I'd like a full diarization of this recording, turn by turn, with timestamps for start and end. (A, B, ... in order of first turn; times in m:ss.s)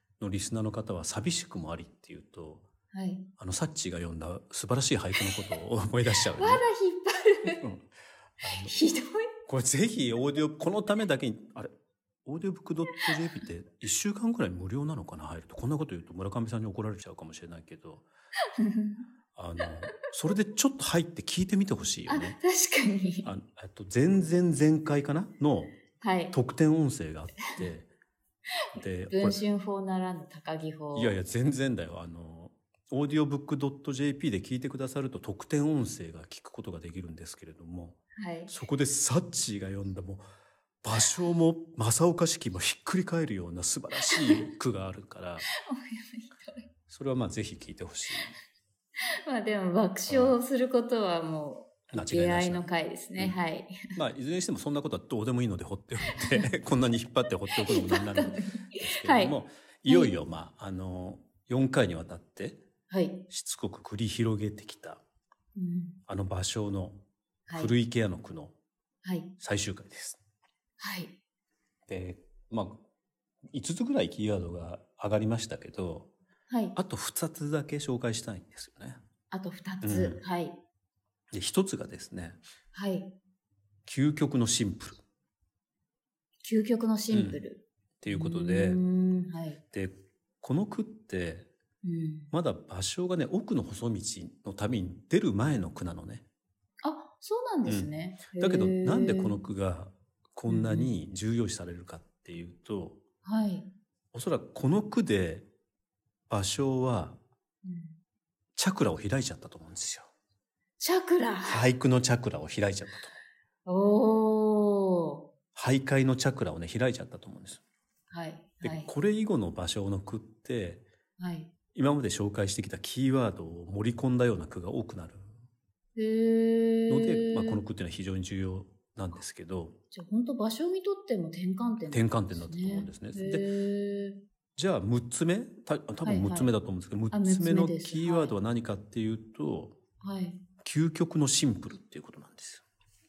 0:00.2-0:02.6 A
0:02.9-0:03.2 B
0:03.4-0:06.6 A
0:06.3-0:07.6 B
0:07.5-0:07.9 A
0:08.4-0:08.7 A
0:08.4-0:09.3 B
0:09.4-0:11.7 A
0:12.2-0:18.0 A
0:18.6-0:19.0 B
0:19.3-0:22.4 A
0:22.1-0:23.3 B
0:23.2-0:25.8 A
0:26.0-0:26.4 B
0:26.3-0:27.9 A
0:28.7-0:29.4 A
0:29.1-0:31.2 B
0:30.9-0:40.2 A
0:38.2-0:38.5 B
0:40.8-0:45.5 A
0:44.0-0:44.4 B
0:45.5-0:46.7 B
0:46.9-0:48.3 A
0:49.3-0:53.9 B
0:50.1-0:50.4 A
0:51.9-0:52.6 A
0:53.9-1:02.6 A
0:56.0-0:56.5 B
0:57.5-1:00.1 B
1:02.9-1:03.2 B
1:03.3-1:05.0 A
1:05.6-1:06.0 B
1:06.1-1:07.0 A
1:07.5-1:07.8 B
1:07.5-1:08.5 A
1:09.0-1:09.3 B
1:09.4-1:10.2 A
1:10.8-1:11.2 B
1:11.9-1:12.8 A
1:13.5-1:16.1 A
1:16.5-1:16.8 B
1:16.8-1:19.0 A
1:19.3-1:20.6 B
1:19.8-1:20.2 A
1:21.3-1:22.4 A
1:22.7-1:23.1 B
1:23.8-1:25.0 A
1:26.4-1:29.6 B
1:27.1-1:27.4 A
1:28.0-1:28.8 A
1:29.7-1:31.5 A
1:31.8-1:32.3 B
1:32.3-1:36.2 A
1:36.8-1:39.4 B
1:37.6-1:43.0 A
1:40.5-1:40.9 B
1:43.2-1:43.7 B
1:44.1-1:45.5 A
1:46.3-1:47.2 A
1:47.6-1:48.0 B
1:48.6-1:50.1 A
1:50.8-1:51.6 B
1:51.4-1:53.1 A
1:53.6-1:55.2 B
1:55.5-1:57.6 A
1:58.1-1:58.9 B
1:58.6-2:00.8 A
2:01.2-2:01.5 B
2:01.7-2:05.2 A
2:06.0-2:07.6 B
2:06.9-2:09.8 A
2:09.9-2:14.2 B
2:11.9-2:13.5 A
2:14.6-2:19.8 A
2:16.0-2:16.5 B
2:17.1-2:18.4 B
2:20.0-2:20.4 B
2:20.6-2:22.6 A